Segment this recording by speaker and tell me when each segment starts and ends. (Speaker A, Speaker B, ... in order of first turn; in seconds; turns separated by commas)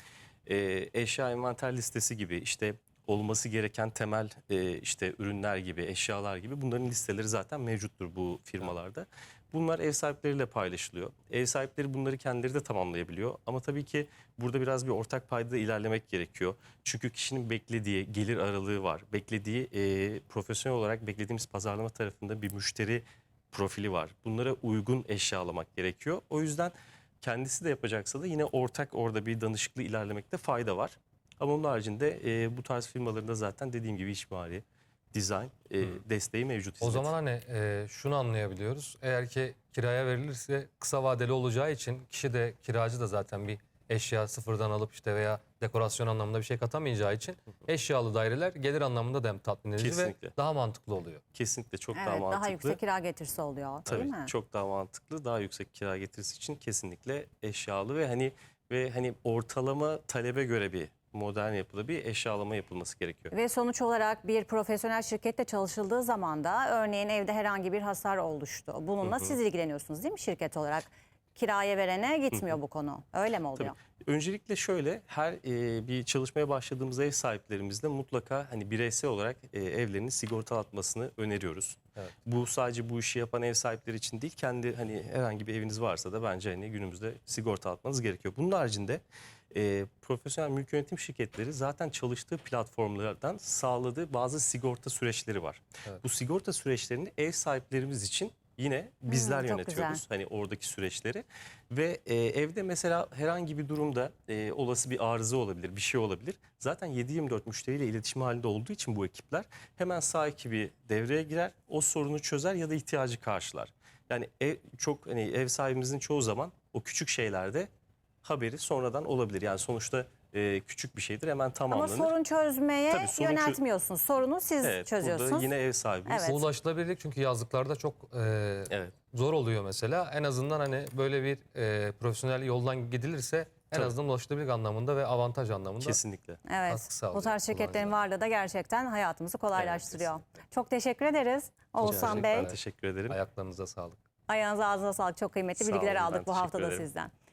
Speaker A: 0.5-37.1, Speaker B: 36.8-51.2, Speaker A: 49.8-50.3, Speaker A: 51.3-52.8, Speaker C: 51.9-54.3, Speaker A: 53.9-63.3, Speaker C: 63.3-73.8, Speaker A: 69.0-69.4, Speaker A: 73.5-117.7, Speaker C: 99.1-100.0, Speaker A: 118.2-122.1, Speaker C: 121.7-125.5, Speaker A: 122.9-123.6, Speaker A: 124.6-126.3, Speaker C: 126.0-126.4, Speaker B: 126.2-136.0, Speaker A: 128.7-128.9, Speaker A: 135.8-136.4, Speaker C: 136.4-142.5, Speaker B: 136.7-138.0, Speaker A: 139.5-140.1, Speaker B: 141.8-144.0, Speaker A: 141.8-143.2, Speaker C: 144.3-147.1, Speaker A: 145.6-146.9